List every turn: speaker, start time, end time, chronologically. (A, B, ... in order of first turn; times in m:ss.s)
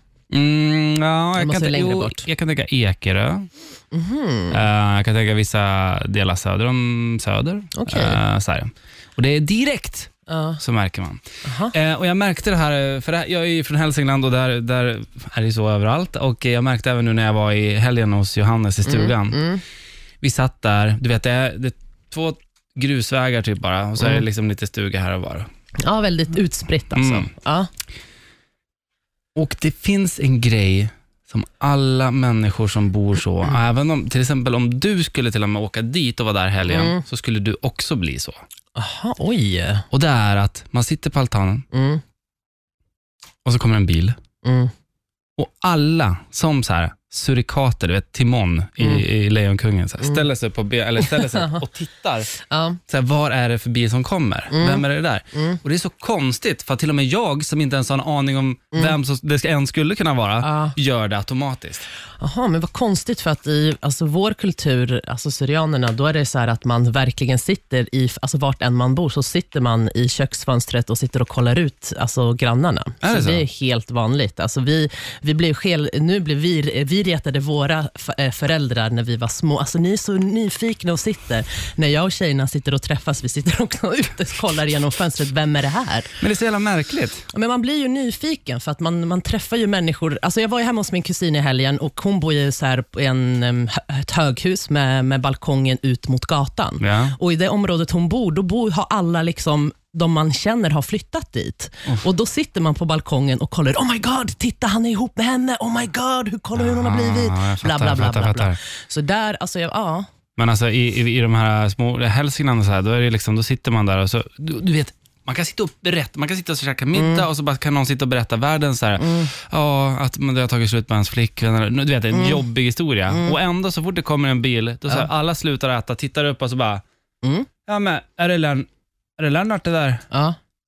0:00.3-0:03.5 A
0:01.4-0:02.2 B
0:03.9-0:04.6 B
0:04.5-0:19.5 A
0:07.7-0:08.2 B
0:10.3-0:10.6 B
0:11.4-0:11.7 B
0:18.8-0:19.6 B
0:20.2-0:25.5 A
0:25.8-0:27.7 B
0:26.9-0:27.3 A
0:29.4-0:38.4 A
0:36.7-0:37.0 B
0:38.8-0:39.9 B
0:39.9-0:41.6 A
0:41.7-0:42.0 B
0:43.4-0:44.2 A
0:44.4-0:44.7 B
0:45.4-0:52.3 A
0:51.0-0:51.6 B
0:52.3-0:52.8 B
0:52.9-1:01.9 A
0:54.5-0:55.6 B
1:00.4-1:00.8 B
1:02.2-1:26.2 B
1:13.0-1:13.5 A
1:26.2-1:27.2 A
1:27.3-1:50.1 B
1:36.8-1:37.1 A
1:46.6-1:48.6 A
1:50.4-2:06.8 A
1:56.9-1:57.3 B
1:59.0-1:59.3 B
2:02.1-2:02.4 B
2:03.1-2:03.4 B
2:07.2-2:07.5 B
2:07.7-2:08.7 A
2:09.2-2:10.0 A
2:10.1-2:10.4 B